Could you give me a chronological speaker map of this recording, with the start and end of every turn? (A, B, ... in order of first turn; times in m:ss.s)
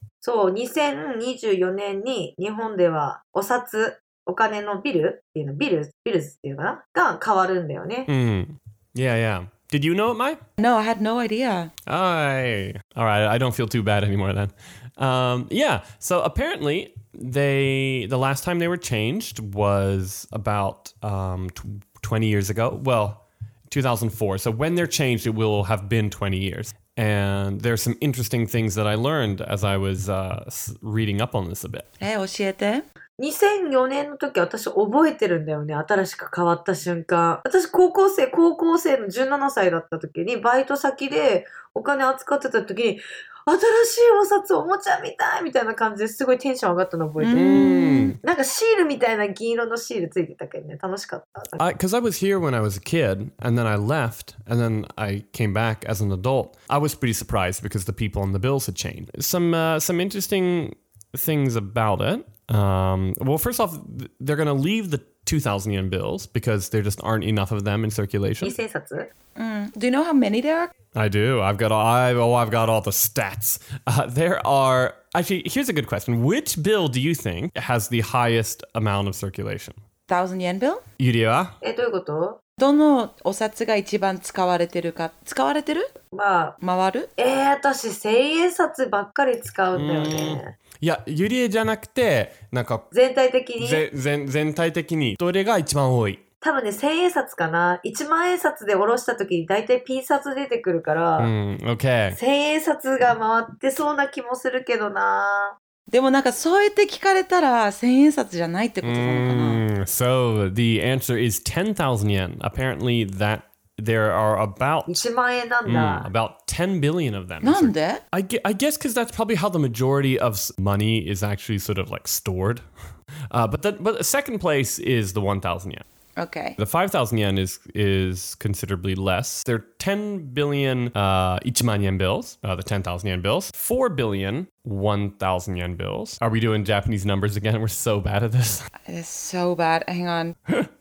0:00.2-0:08.1 A
0:08.1-0:10.4 B
0:10.6-0:11.7 C
0:11.9-0:31.8 B
0:32.0-0:32.8 C
0:33.2-0:51.6 A
0:47.2-0:48.2 C
0:47.3-0:48.2 B
0:51.6-1:08.6 B
1:08.4-1:09.1 A
1:09.3-1:10.7 C
1:10.9-1:19.8 B
1:20.1-1:20.8 C
1:21.0-1:21.5 B
1:21.6-1:22.4 A
1:22.6-1:25.9 C
1:26.1-1:26.6 A
1:26.6-1:27.1 C
1:27.2-1:30.5 A
1:29.7-1:32.8 B
1:32.9-1:33.8 A
1:33.6-1:36.2 B
1:36.4-1:41.3 A
1:41.2-1:42.2 B
1:42.1-1:45.6 A
1:45.9-1:49.6 C
1:48.8-1:55.0 B
1:54.9-1:56.1 A
1:55.6-2:02.6 B
1:57.4-1:58.0 C
2:03.3-2:05.8 B
2:06.2-2:06.6 C
2:06.6-2:18.7 B
2:18.9-2:20.4 C